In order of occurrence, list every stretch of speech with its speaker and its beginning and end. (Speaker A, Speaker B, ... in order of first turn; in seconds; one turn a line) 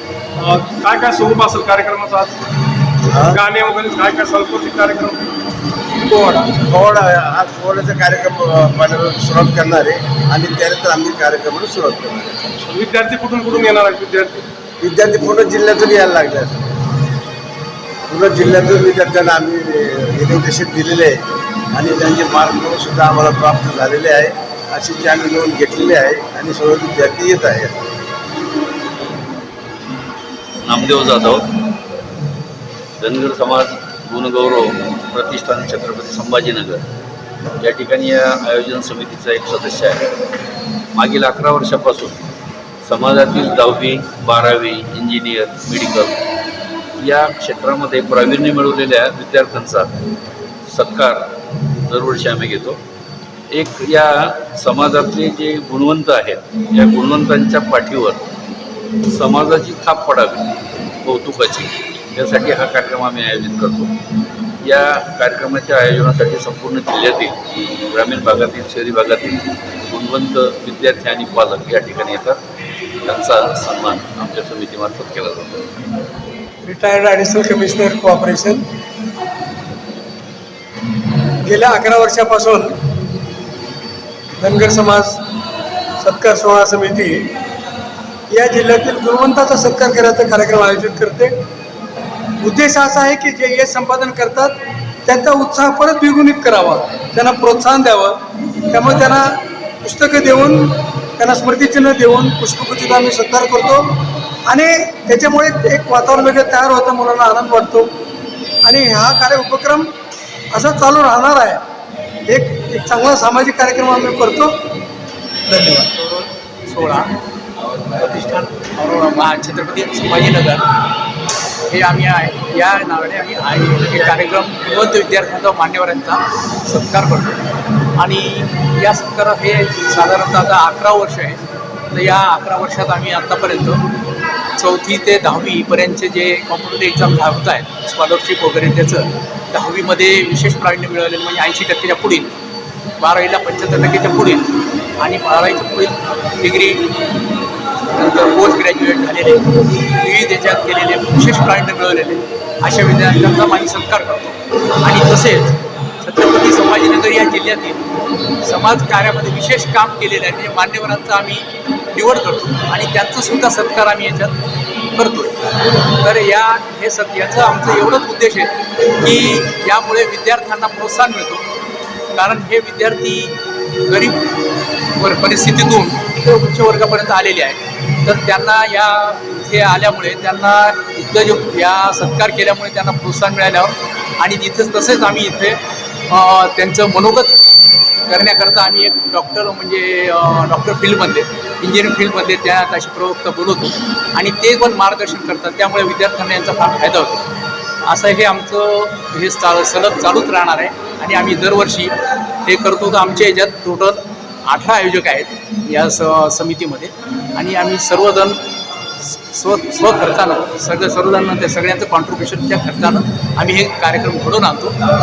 Speaker A: 0.4-2.4
Speaker B: 3.1-3.4
Speaker A: 3.3-5.4
Speaker B: 6.4-12.5
Speaker A: 12.6-14.5
Speaker B: 14.8-16.6
Speaker B: 18.1-21.2
Speaker B: 21.7-27.7
Speaker C: 30.6-31.4
Speaker C: 33.0-36.8
Speaker C: 37.6-40.0
Speaker C: 40.9-42.2
Speaker C: 42.8-46.1
Speaker C: 47.0-49.9
Speaker C: 50.7-51.2
Speaker C: 51.9-52.8
Speaker C: 53.5-58.2
Speaker C: 59.1-60.5
Speaker C: 61.0-63.9
Speaker C: 64.6-69.4
Speaker C: 69.9-72.4
Speaker C: 73.0-75.6
Speaker D: 76.6-78.6
Speaker D: 81.4-82.7
Speaker D: 84.4-85.2
Speaker D: 86.0-87.3
Speaker D: 88.3-91.3
Speaker D: 92.4-98.2
Speaker D: 98.7-99.2
Speaker D: 99.8-107.9
Speaker D: 108.6-109.9
Speaker D: 110.5-111.6
Speaker D: 112.3-114.5
Speaker D: 115.5-115.9
Speaker E: 116.0-117.1
Speaker E: 117.9-120.7
Speaker E: 121.7-127.4
Speaker E: 128.0-131.4
Speaker E: 131.9-133.8
Speaker E: 134.6-142.3
Speaker E: 143.0-144.5
Speaker E: 145.0-146.9
Speaker E: 147.9-157.8
Speaker E: 158.4-164.3
Speaker E: 164.9-165.4
Speaker E: 166.0-171.4
Speaker E: 172.1-173.3
Speaker E: 173.9-174.2
Speaker E: 175.0-187.3
Speaker E: 188.1-197.2
Speaker E: 197.8-208.4
Speaker E: 209.3-214.8